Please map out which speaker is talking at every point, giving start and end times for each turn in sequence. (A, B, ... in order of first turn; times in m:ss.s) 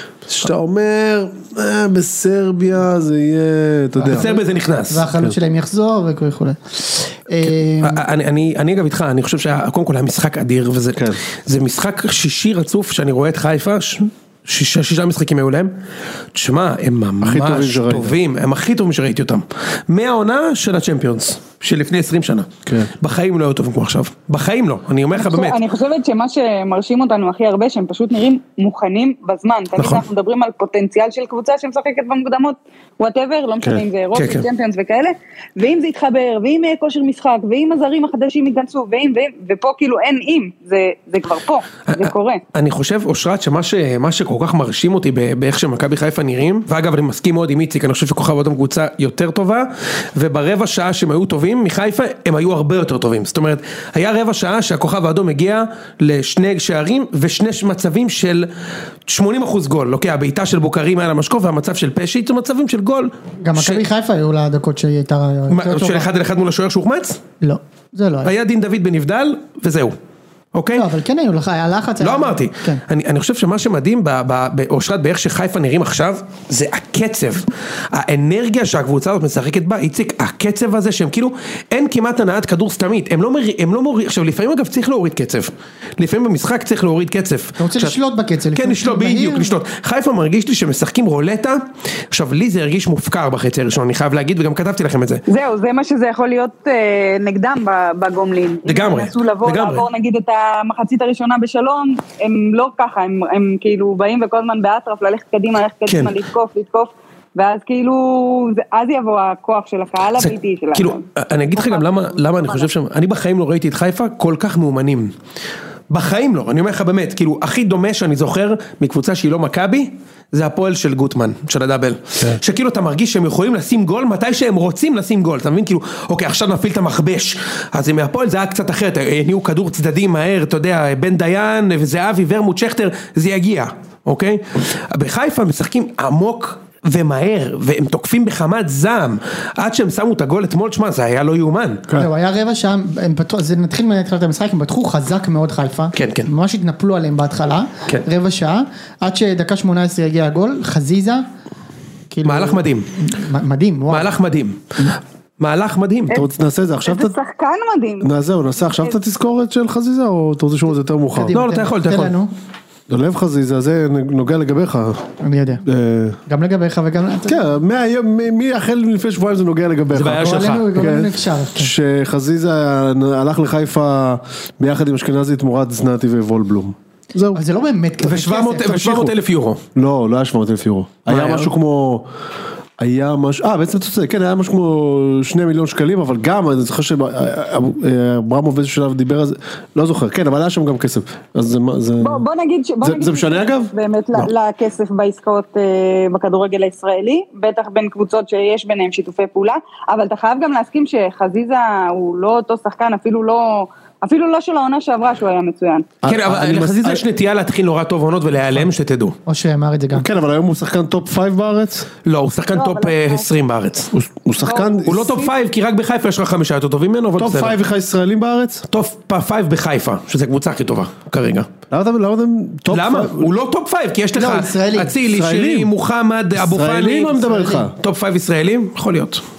0:00.3-0:04.3 A
0:04.0-0:08.0 B
0:04.1-0:05.1 C
0:07.8-0:15.7 C
0:11.0-0:11.2 A
0:16.3-0:25.6 C
0:17.2-0:18.2 A
0:22.7-0:22.9 A
0:25.1-0:42.4 D
0:29.8-0:30.0 C
0:34.1-0:34.5 C
0:41.9-0:58.5 C
0:59.1-1:03.8 C
1:03.4-1:06.1 B
1:05.5-1:07.2 C
1:07.4-1:08.3 B
1:08.2-1:10.0 C
1:10.5-1:10.8 C
1:10.7-1:12.8 B
1:12.0-1:28.0 C
1:27.6-1:29.6 B
1:28.6-1:35.2 C
1:35.3-1:51.0 D
1:38.6-1:39.9 C
1:45.9-1:46.2 C
1:50.2-1:55.1 C
1:51.5-1:52.7 D
1:55.9-2:21.8 C
2:22.0-2:31.2 B
2:25.9-2:26.3 C
2:32.1-2:34.1 B
2:32.2-2:32.9 C
2:33.9-2:36.2 C
2:36.1-2:37.2 A
2:36.8-2:38.1 D
2:38.0-2:41.3 A
2:38.6-2:39.0 D
2:41.2-2:42.3 B
2:41.3-2:42.1 C
2:42.9-2:45.0 A
2:45.2-2:45.6 B
2:45.6-2:46.2 A
2:46.3-2:47.5 B
2:47.3-2:57.4 A
2:49.9-2:50.7 C
2:50.2-2:51.7 B
2:57.3-2:58.9 B
2:58.0-2:59.6 C
2:58.7-2:59.1 A
2:59.8-3:02.1 A
3:01.1-3:01.5 C
3:02.8-3:12.2 A
3:12.0-3:25.9 D
3:12.8-3:13.7 A
3:26.0-3:27.0 A
3:26.0-3:29.2 C
3:29.3-3:30.1 B
3:29.9-3:31.9 A
3:32.0-3:33.9 C
3:32.5-3:33.3 D
3:33.9-3:35.2 A
3:34.4-3:35.3 D
3:34.8-3:37.6 C
3:37.2-3:38.6 A
3:38.7-3:41.5 C
3:41.7-3:43.3 A
3:42.7-3:49.2 C
3:44.2-3:44.9 B
3:45.0-3:45.7 A
3:46.4-3:47.8 A
3:47.3-3:47.7 B